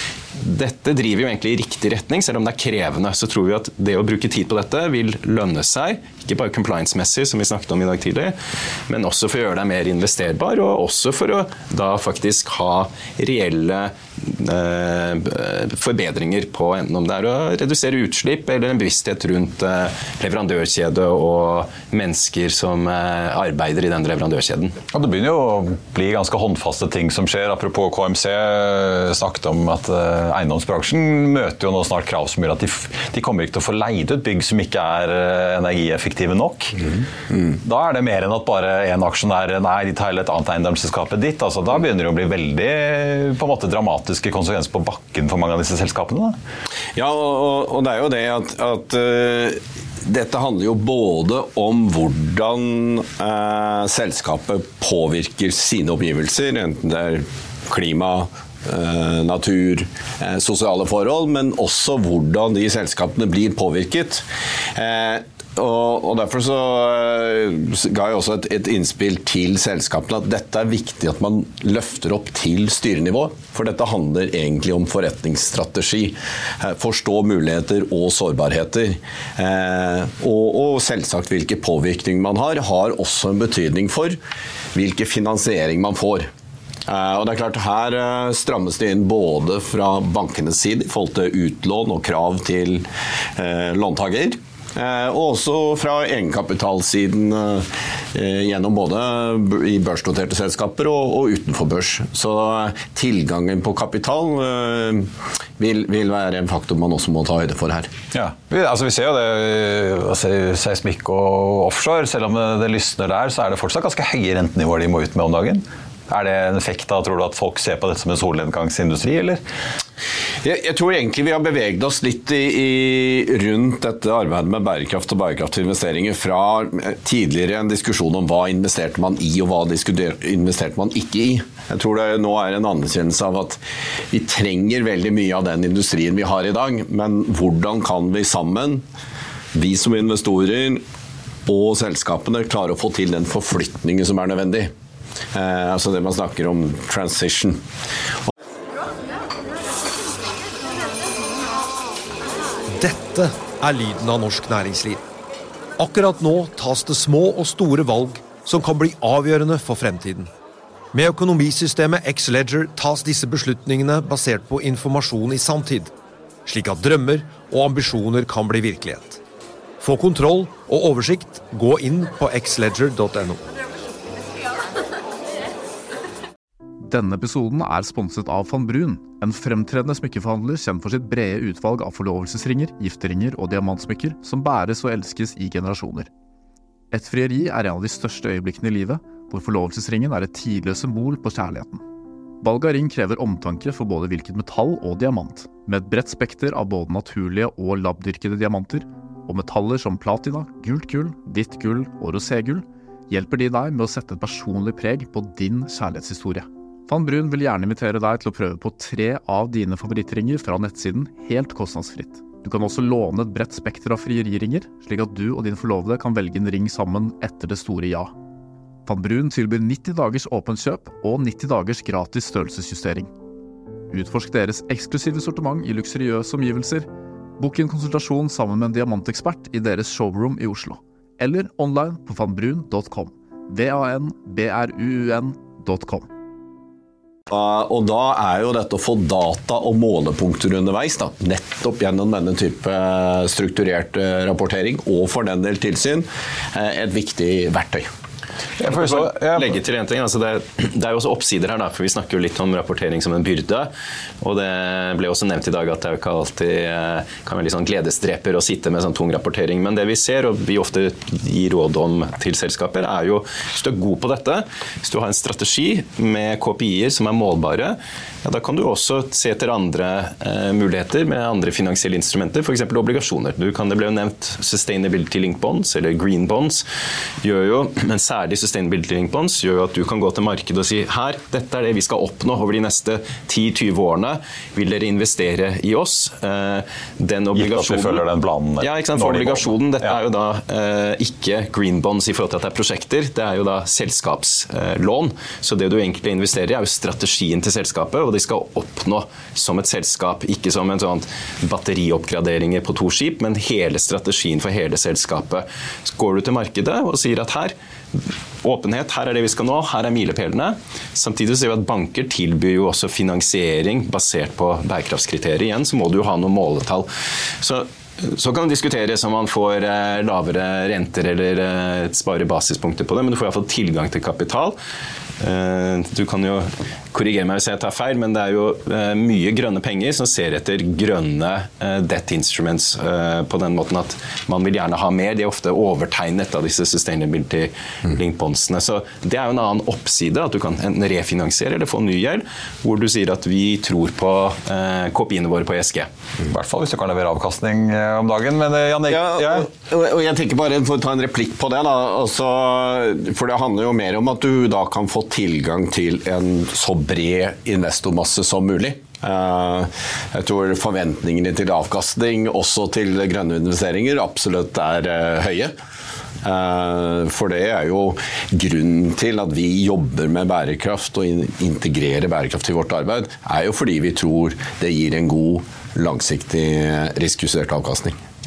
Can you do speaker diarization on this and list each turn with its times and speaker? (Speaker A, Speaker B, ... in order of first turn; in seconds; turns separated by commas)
Speaker A: 0.3-8.3, Speaker A: 8.9-24.8, Speaker B: 24.9-36.8, Speaker B: 37.6-46.4, Speaker C: 46.9-84.2, Speaker C: 84.7-86.3, Speaker C: 86.8-107.9, Speaker B: 108.1-119.4, Speaker C: 120.4-138.8, Speaker C: 139.5-140.8, Speaker C: 141.5-144.7, Speaker C: 145.3-147.6, Speaker D: 152.7-155.0, Speaker D: 155.8-160.3, Speaker D: 160.9-165.9, Speaker D: 166.4-169.2, Speaker D: 169.8-173.4, Speaker E: 176.8-186.1, Speaker E: 186.9-191.8, Speaker E: 192.4-218.1, Speaker E: 218.8-223.1, Speaker E: 223.9-226.9, Speaker E: 227.4-236.1, Speaker C: 237.3-247.9, Speaker B: 248.6-249.5, Speaker A: 248.7-253.7, Speaker A: 254.2-276.6, Speaker A: 277.2-288.0, Speaker B: 287.3-289.9, Speaker A: 288.6-307.5, Speaker A: 308.4-316.9, Speaker A: 317.4-324.6, Speaker A: 325.2-345.9, Speaker B: 346.3-349.5, Speaker C: 348.9-365.5, Speaker C: 366.2-378.0